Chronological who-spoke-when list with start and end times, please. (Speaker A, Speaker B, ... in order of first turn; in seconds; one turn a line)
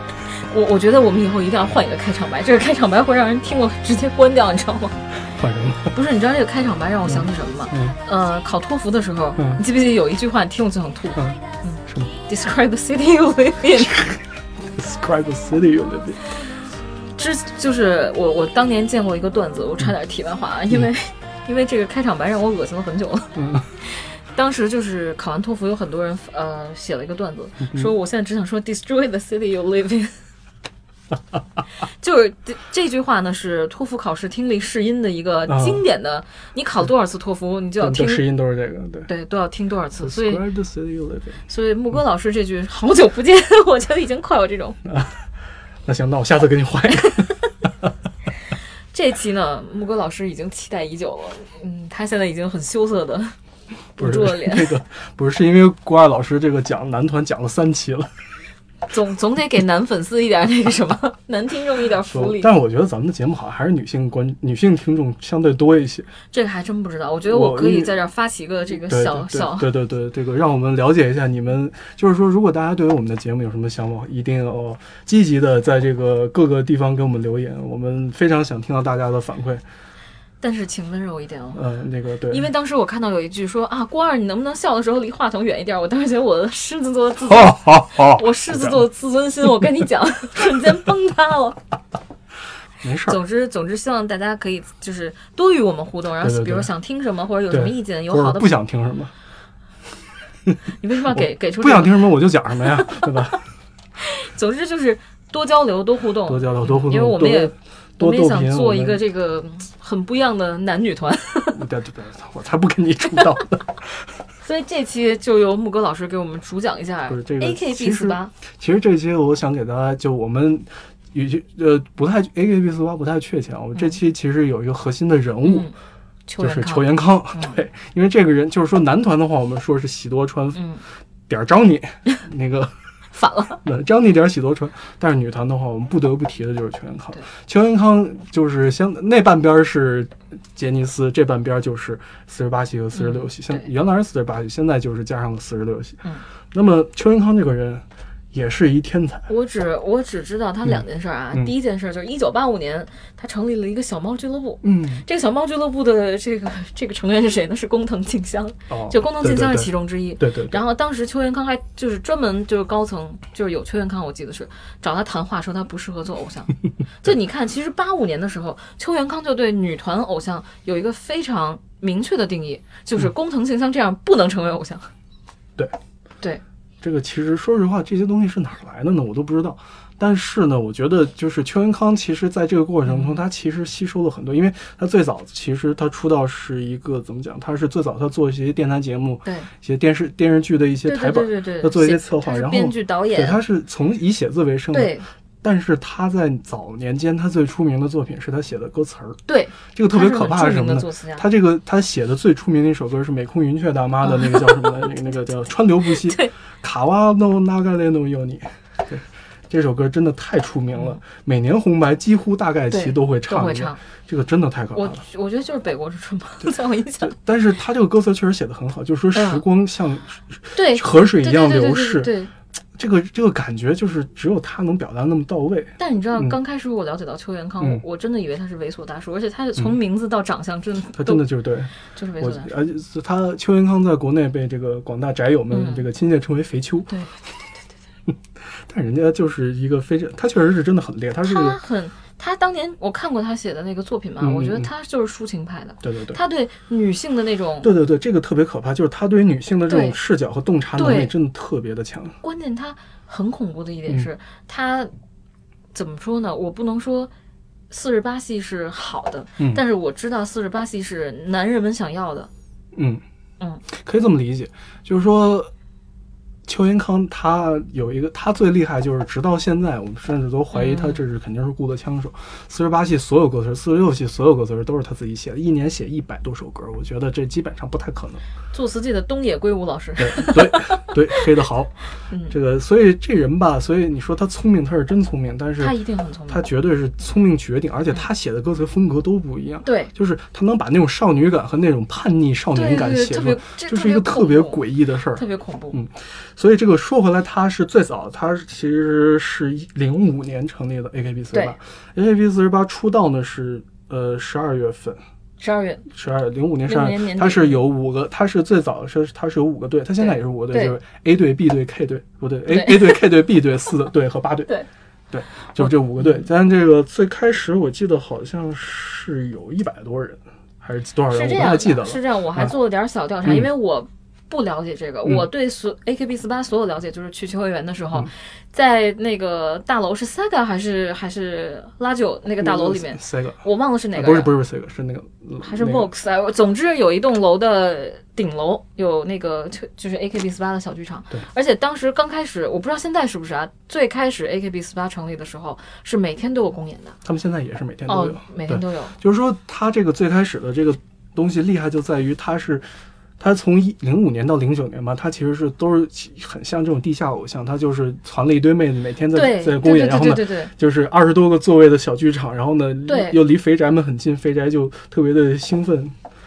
Speaker A: 0.5-5.0
Speaker B: 5.3-5.9
Speaker A: 5.9-14.1
Speaker B: 7.0-8.0
Speaker B: 9.4-9.6
Speaker B: 11.2-12.1
Speaker B: 13.9-16.3
Speaker A: 17.2-30.1
Speaker B: 23.4-23.7
Speaker A: 32.0-38.2
Speaker B: 35.5-35.8
Speaker B: 37.8-39.1
Speaker A: 39.1-40.4
Speaker B: 40.0-41.4
Speaker A: 41.5-44.8
Speaker B: 44.9-45.2
Speaker B: 45.9-47.7
Speaker A: 48.9-53.4
Speaker A: 54.0-54.8
Speaker B: 54.0-58.1
Speaker A: 58.9-62.5
Speaker B: 62.1-66.1
Speaker A: 66.3-69.7
Speaker B: 67.3-68.0
Speaker B: 68.9-79.6
Speaker A: 80.4-81.6
Speaker B: 81.5-82.5
Speaker A: 82.3-91.6
Speaker B: 87.4-88.8
Speaker B: 92.8-93.2
Speaker A: 93.0-98.5
Speaker B: 96.2-96.7
Speaker B: 97.5-99.1
Speaker A: 100.8-102.0
Speaker B: 101.1-103.4
Speaker A: 102.8-103.1
Speaker A: 104.0-111.6
Speaker B: 106.3-109.0
Speaker B: 111.5-114.1
Speaker A: 114.4-118.3
Speaker B: 117.1-125.7
Speaker A: 125.4-125.8
Speaker A: 126.3-127.6
Speaker B: 126.4-130.7
Speaker A: 130.6-130.8
Speaker B: 131.3-132.8
Speaker A: 133.1-133.6
Speaker B: 133.6-149.3
Speaker A: 142.9-143.7
Speaker A: 149.3-174.9
Speaker B: 150.7-151.5
Speaker B: 154.6-155.1
Speaker B: 158.7-160.6
Speaker B: 176.8-199.2
Speaker A: 182.9-183.2
Speaker A: 189.2-189.5
Speaker A: 190.8-193.4
Speaker A: 194.7-195.1
Speaker A: 199.3-201.3
Speaker B: 199.7-215.0
Speaker A: 204.0-204.9
Speaker A: 205.9-206.3
Speaker A: 212.7-213.8
Speaker A: 214.8-217.1
Speaker B: 217.0-222.2
Speaker A: 219.1-219.4
Speaker A: 220.6-222.3
Speaker B: 222.8-226.4
Speaker A: 225.8-231.2
Speaker B: 230.9-236.9
Speaker A: 231.9-232.5
Speaker A: 235.5-235.8
Speaker B: 238.1-241.6
Speaker A: 241.2-247.7
Speaker B: 244.2-244.7
Speaker B: 245.8-246.2
Speaker B: 247.6-252.2
Speaker A: 249.7-250.0
Speaker A: 250.8-251.1
Speaker A: 252.2-254.9
Speaker A: 255.7-257.1
Speaker A: 257.7-262.3
Speaker B: 262.8-263.0
Speaker B: 263.7-265.5
Speaker B: 266.5-278.2
Speaker A: 270.5-271.0
Speaker A: 278.5-280.9
Speaker B: 280.0-281.7
Speaker A: 282.1-282.4
Speaker B: 282.3-285.8
Speaker A: 285.6-286.5
Speaker B: 286.3-305.0
Speaker A: 289.6-289.9
Speaker A: 292.5-295.8
Speaker A: 305.4-305.9
Speaker B: 305.9-314.5
Speaker A: 306.7-307.6
Speaker A: 310.0-310.8
Speaker A: 312.5-313.1
Speaker B: 315.1-322.5
Speaker A: 315.6-316.3
Speaker A: 321.1-334.3
Speaker B: 332.4-333.4
Speaker B: 333.9-335.9
Speaker A: 335.4-347.0
Speaker B: 347.1-352.7
Speaker A: 347.9-349.0
Speaker B: 353.2-366.0
Speaker A: 359.1-360.5
Speaker A: 362.9-363.2